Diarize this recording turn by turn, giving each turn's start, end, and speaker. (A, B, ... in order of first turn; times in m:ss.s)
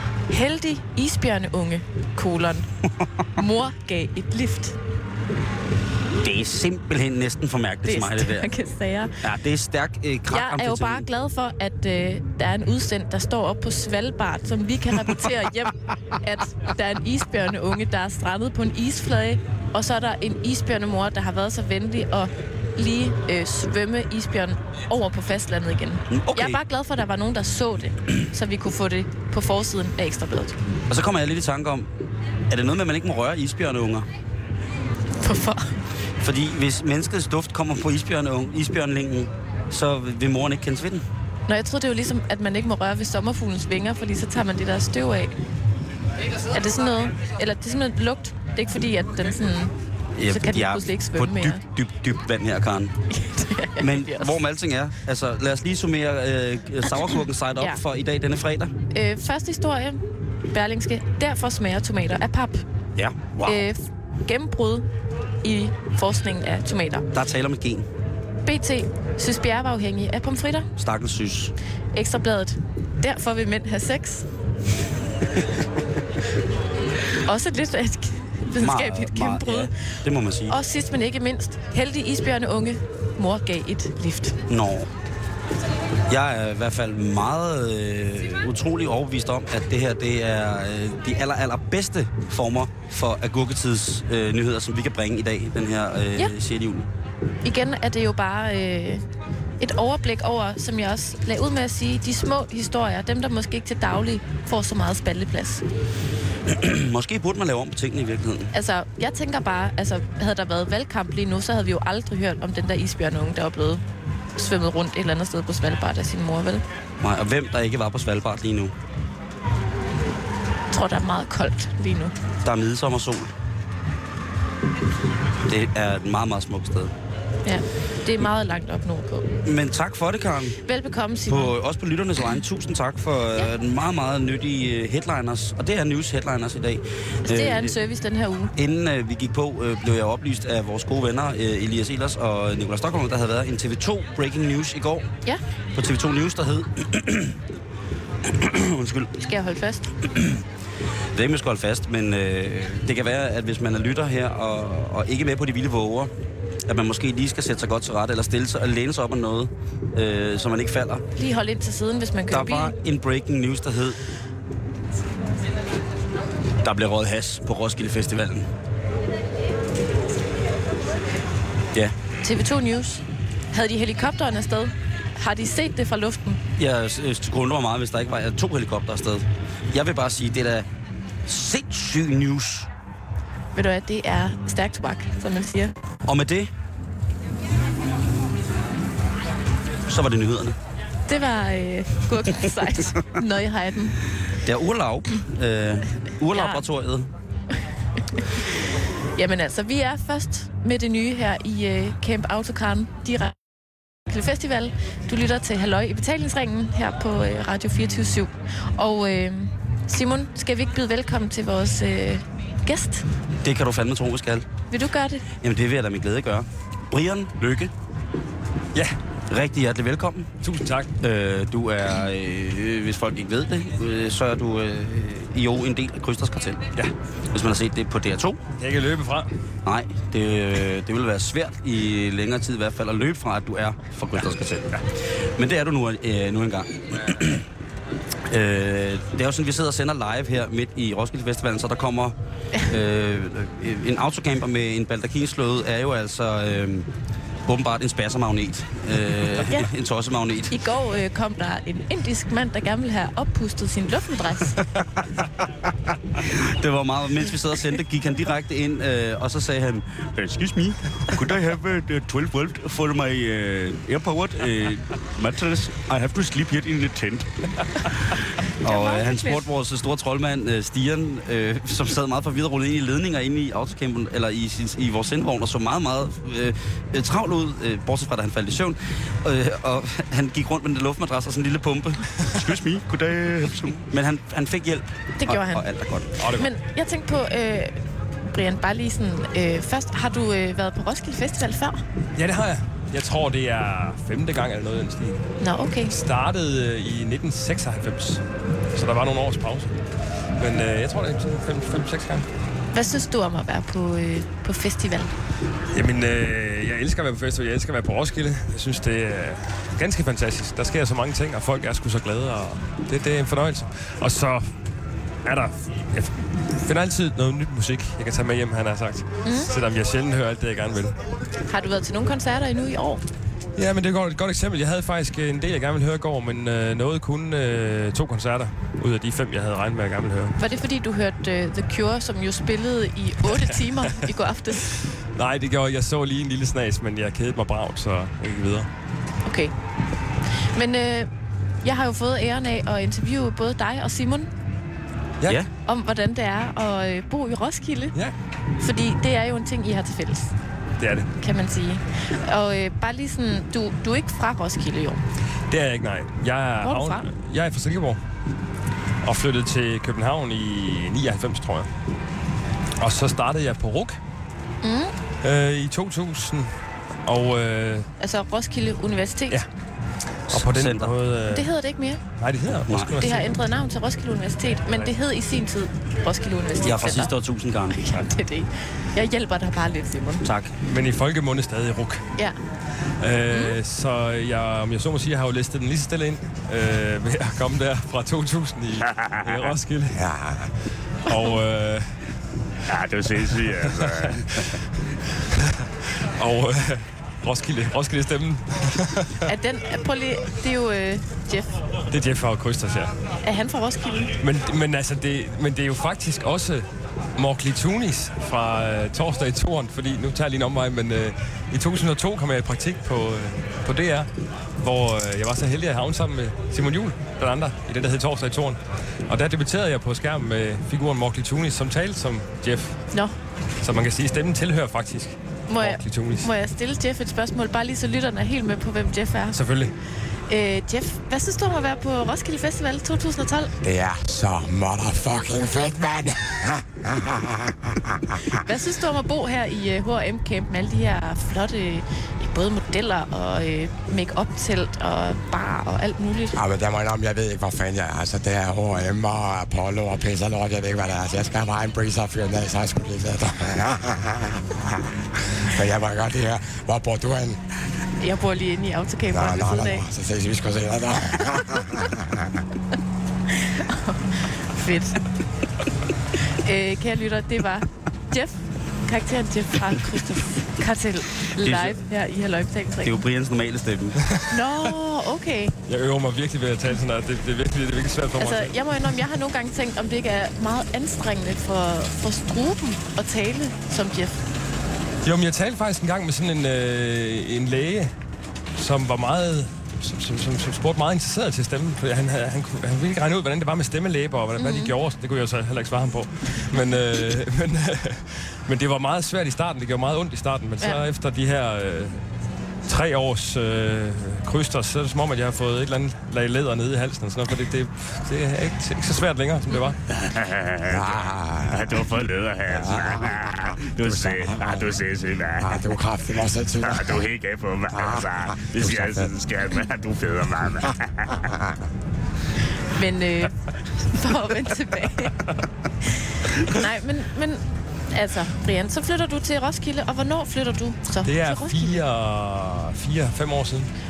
0:00.3-0:02.7 A
0:03.4-0:04.8 A
0:06.2-0:08.5 B
0:07.8-0:09.2 A
0:09.2-0:11.1 B
0:10.3-0:30.6 A
0:26.1-0:26.6 B
0:30.9-0:31.9 B
0:32.5-0:34.1 B
0:35.2-0:35.8 A
0:36.2-0:41.0 B
0:41.5-0:45.4 A
0:46.5-0:49.7 A
0:50.2-0:53.0 B
0:50.2-0:51.6 A
0:53.1-0:54.4 A
0:53.8-0:58.7 B
0:58.9-1:02.6 A
1:03.0-1:03.7 B
1:03.4-1:04.9 A
1:05.4-1:07.1 A
1:07.1-1:07.9 B
1:08.4-1:10.7 A
1:10.8-1:11.5 B
1:11.9-1:14.3 A
1:17.2-1:19.7 A
1:18.6-1:20.6 B
1:20.5-1:24.4 A
1:24.5-1:24.9 B
1:26.1-1:36.9 B
1:37.4-1:39.0 A
1:39.6-1:45.6 A
1:46.5-1:48.5 B
1:48.5-1:53.8 A
1:54.4-1:56.6 A
1:57.0-1:58.7 B
2:00.7-2:02.1 A
2:02.4-2:03.3 B
2:05.4-2:06.9 B
2:07.4-2:09.3 A
2:09.4-2:10.6 B
2:10.6-2:11.5 A
2:11.3-2:17.8 B
2:17.3-2:18.5 A
2:18.6-2:25.1 B
2:25.7-2:27.4 B
2:28.2-2:29.2 B
2:29.2-2:29.9 A
2:30.1-2:30.4 B
2:31.2-2:36.1 B
2:36.7-2:41.1 B
2:41.2-2:42.7 A
2:42.3-2:44.0 B
2:46.6-2:48.5 B
2:52.2-2:56.4 A
2:56.6-3:00.7 B
3:01.3-3:02.7 B
3:03.6-3:05.7 A
3:06.1-3:06.5 B
3:09.9-3:10.6 B
3:11.1-3:14.0 A
3:14.4-3:17.1 B
3:16.3-3:16.6 A
3:19.2-3:23.4 A
3:24.1-3:33.1 A
3:33.4-3:34.5 B
3:34.7-3:35.2 A
3:35.4-3:37.7 B
3:39.3-3:40.3 B
3:40.4-3:40.9 C
3:41.0-3:46.8 B
3:47.3-3:48.4 B
3:48.6-3:49.3 C
3:49.6-3:57.5 B
3:58.3-4:06.9 B
4:07.5-4:10.6 B
4:10.5-4:14.6 A
4:16.2-4:46.2 B
4:28.6-4:29.4 A
4:45.2-4:45.7 A
4:46.2-4:51.8 A
4:46.2-4:46.5 C
4:52.2-4:55.2 C
4:55.4-4:56.0 A
4:55.9-4:58.2 C
4:58.7-4:59.7 C
5:00.4-5:02.3 C
5:02.7-5:05.1 A
5:05.7-5:14.4 C
5:15.2-5:21.0 C
5:19.2-5:19.5 A
5:21.5-5:23.0 A
5:23.6-5:30.4 C
5:30.4-5:34.7 A
5:35.1-5:38.7 C
5:39.2-5:39.5 A
5:40.5-5:41.1 A
5:41.6-5:44.3 A
5:45.2-5:45.5 B
5:45.7-5:48.0 A
5:48.6-5:50.3 A
5:50.8-5:51.1 C
5:51.2-5:55.0 A
5:55.5-5:58.0 C
5:56.6-5:57.1 A
5:59.0-6:01.7 C
6:02.8-6:04.0 C
6:04.6-6:05.0 A
6:05.2-6:06.5 C
6:07.0-6:07.9 C
6:08.0-6:09.4 A
6:10.3-6:11.0 B
6:10.3-6:11.5 C
6:11.3-6:12.0 A
6:12.2-6:13.3 C
6:12.6-6:13.0 B
6:13.0-6:17.1 A
6:16.6-6:17.8 B
6:17.7-6:20.2 A
6:20.2-6:20.6 B
6:20.6-6:22.0 C
6:23.0-6:30.0 C
6:23.3-6:23.6 A
6:28.9-6:29.4 D
6:30.0-6:30.4 E
6:31.0-6:32.0 C
6:32.7-6:34.2 D
6:33.2-6:34.6 C
6:35.4-6:35.6 C
6:36.2-6:39.2 C
6:39.3-6:41.6 A
6:41.9-6:42.9 C
6:43.2-6:44.1 A
6:44.2-6:54.1 C
6:54.6-7:02.8 C
7:03.6-7:06.3 C
7:05.5-7:09.4 A
7:09.3-7:09.7 C
7:10.3-7:13.5 A
7:13.6-7:18.4 E
7:18.4-7:26.4 A
7:26.4-7:34.8 E
7:35.4-7:37.4 E
7:38.0-7:39.8 A
7:39.1-7:42.2 E
7:43.3-7:45.0 A
7:46.2-7:53.0 A
7:49.8-7:50.5 B
7:51.3-7:51.8 B
7:52.8-7:54.0 B
7:54.1-7:54.4 C
7:54.3-7:55.5 A
7:55.7-7:58.6 C
7:58.2-8:04.2 A
8:05.0-8:07.9 C
8:08.6-8:22.0 C
8:14.4-8:14.7 A
8:22.7-8:29.8 C
8:30.1-8:35.7 D
8:30.7-8:31.8 E
8:32.5-8:34.7 E
8:35.4-8:37.1 E
8:36.6-8:41.2 D
8:37.7-8:39.2 E
8:42.7-8:45.2 A
8:46.4-8:51.8 A
8:51.0-8:53.7 C